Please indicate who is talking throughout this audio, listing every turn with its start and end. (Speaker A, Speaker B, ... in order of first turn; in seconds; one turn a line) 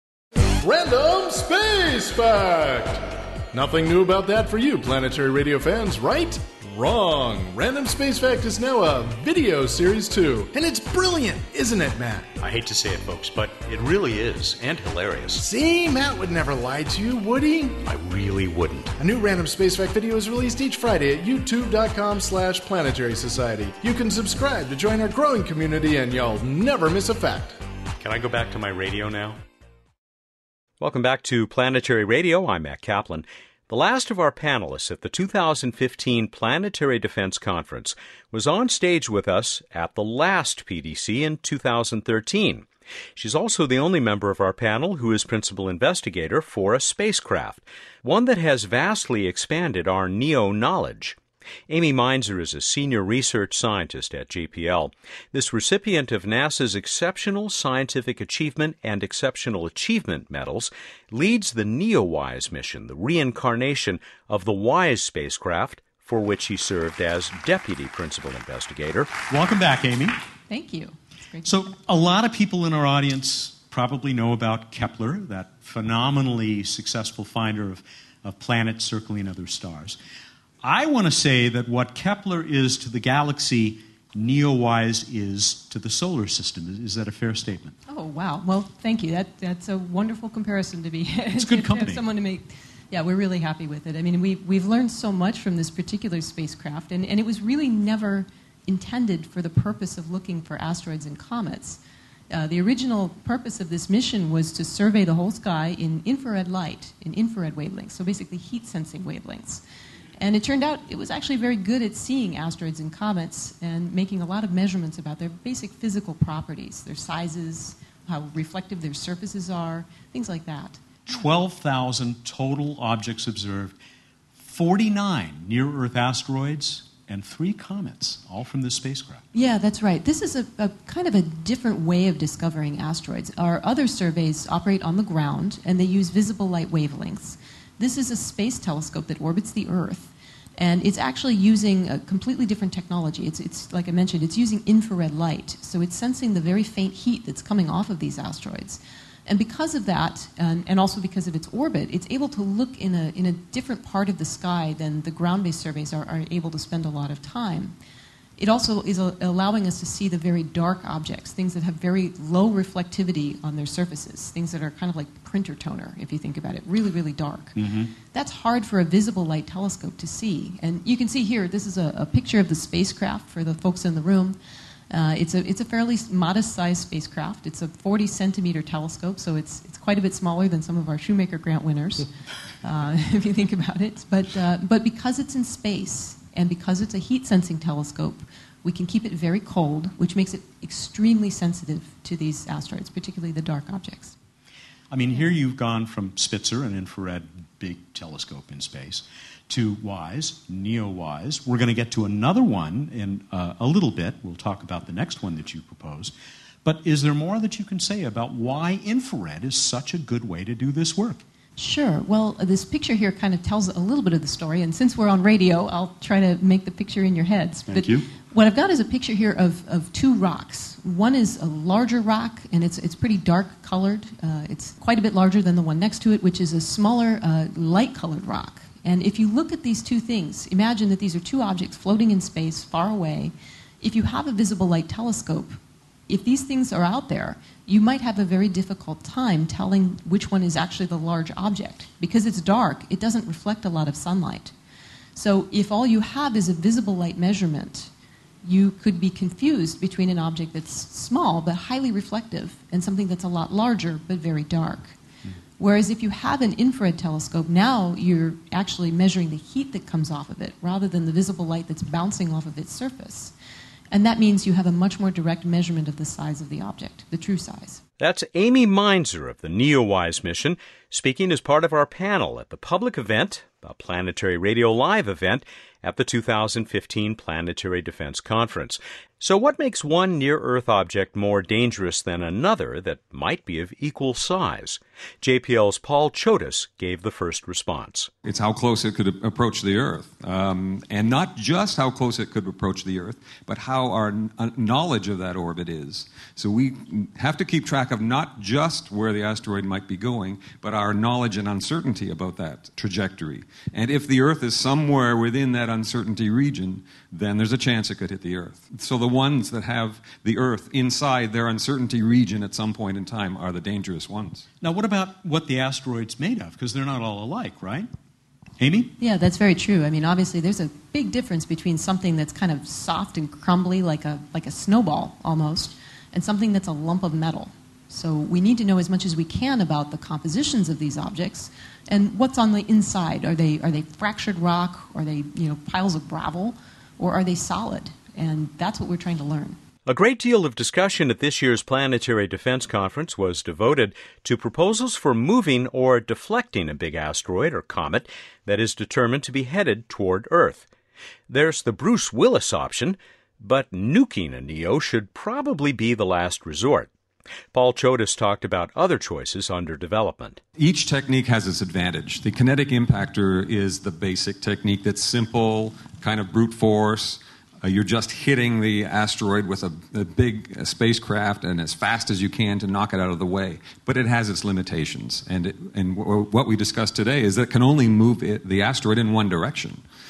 Speaker A: 0.6-12.3
Speaker B: 12.4-15.5
Speaker A: 15.4-17.8
Speaker B: 17.8-18.9
Speaker A: 19.0-27.6
Speaker B: 28.0-29.4
Speaker C: 30.8-51.2
Speaker C: 51.7-69.2
Speaker B: 69.3-70.2
Speaker D: 70.5-71.6
Speaker B: 71.4-80.0
Speaker B: 80.6-87.8
Speaker D: 87.9-109.6
Speaker B: 91.3-92.0
Speaker D: 110.2-120.8
Speaker B: 121.1-123.8
Speaker B: 124.4-129.2
Speaker D: 129.3-157.7
Speaker D: 158.4-167.6
Speaker B: 167.6-167.9
Speaker D: 168.1-174.4
Speaker D: 174.9-182.1
Speaker D: 182.6-194.1
Speaker B: 194.9-211.2
Speaker D: 211.6-235.6
Speaker B: 217.7-218.1
Speaker D: 236.1-244.5
Speaker D: 245.2-247.9
Speaker D: 248.4-255.0
Speaker D: 255.6-263.3
Speaker D: 263.9-267.8
Speaker C: 268.0-288.1
Speaker E: 288.2-314.5
Speaker B: 314.6-317.9
Speaker B: 318.6-318.9
Speaker D: 319.0-339.6
Speaker C: 339.9-350.7
Speaker C: 351.3-356.9
Speaker C: 357.5-360.4
Speaker E: 360.6-379.8